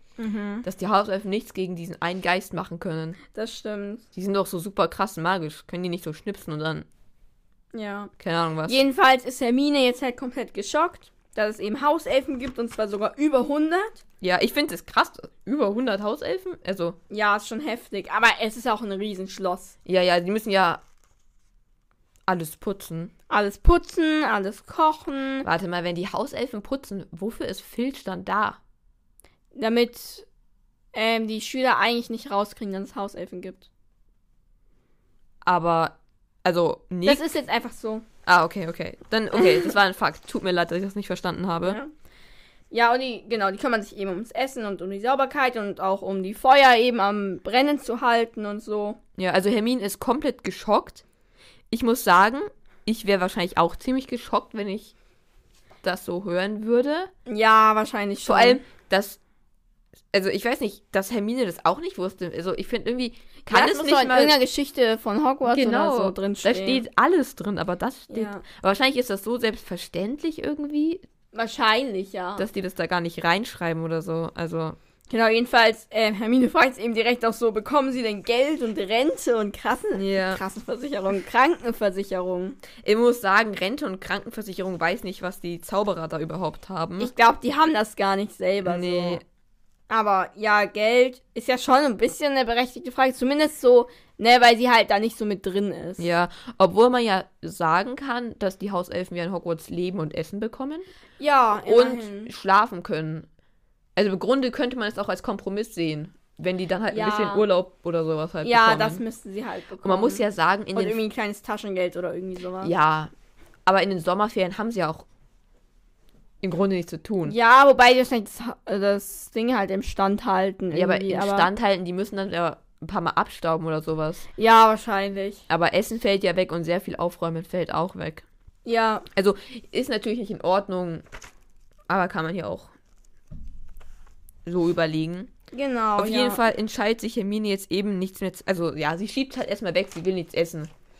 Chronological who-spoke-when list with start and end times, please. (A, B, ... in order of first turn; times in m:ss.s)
0:00.2-0:00.6 A
0:00.6-0:03.2 B
0:03.3-0:04.0 A
0:04.1-0:06.9 B
0:07.7-0:08.1 A
0:08.2-0:08.8 B
0:08.7-0:14.0 A
0:14.2-0:17.0 B
0:17.1-0:19.7 A
0:19.8-0:20.8 B
0:22.3-0:23.1 B
0:23.3-0:25.5 A
0:25.4-0:28.6 B
0:29.5-0:30.2 A
0:30.9-0:33.7 A
0:35.4-0:37.2 B
0:37.0-0:38.0 A
0:38.2-0:41.8 B
0:39.4-0:39.7 A
0:41.6-0:41.9 A
0:42.7-0:49.0 A
0:49.2-0:51.0 B
0:51.7-0:54.9 B
0:55.8-0:57.1 B
0:57.3-0:58.6 A
0:58.2-0:59.2 B
1:00.1-1:04.4 B
1:03.5-1:06.8 A
1:05.5-1:11.0 B
1:08.1-1:08.4 A
1:11.3-1:12.5 A
1:12.4-1:14.8 B
1:15.1-1:22.6 A
1:19.9-1:20.4 B
1:22.8-1:27.1 B
1:27.0-1:29.2 A
1:28.6-1:29.2 B
1:29.9-1:36.0 A
1:36.0-1:40.9 B
1:41.2-1:42.3 A
1:41.6-1:43.3 B
1:44.0-1:49.0 B
1:46.9-1:47.4 A
1:48.4-1:52.7 A
1:49.8-1:51.0 B
1:52.6-1:53.1 B
1:53.6-1:55.0 B
1:56.4-1:57.4 B
1:57.2-2:01.5 A
2:00.7-2:04.3 B
2:04.4-2:05.4 A
2:05.5-2:08.2 B
2:08.6-2:09.0 A
2:09.1-2:11.0 B
2:11.9-2:12.7 B
2:14.4-2:15.3 B
2:15.5-2:16.4 A
2:16.0-2:20.7 B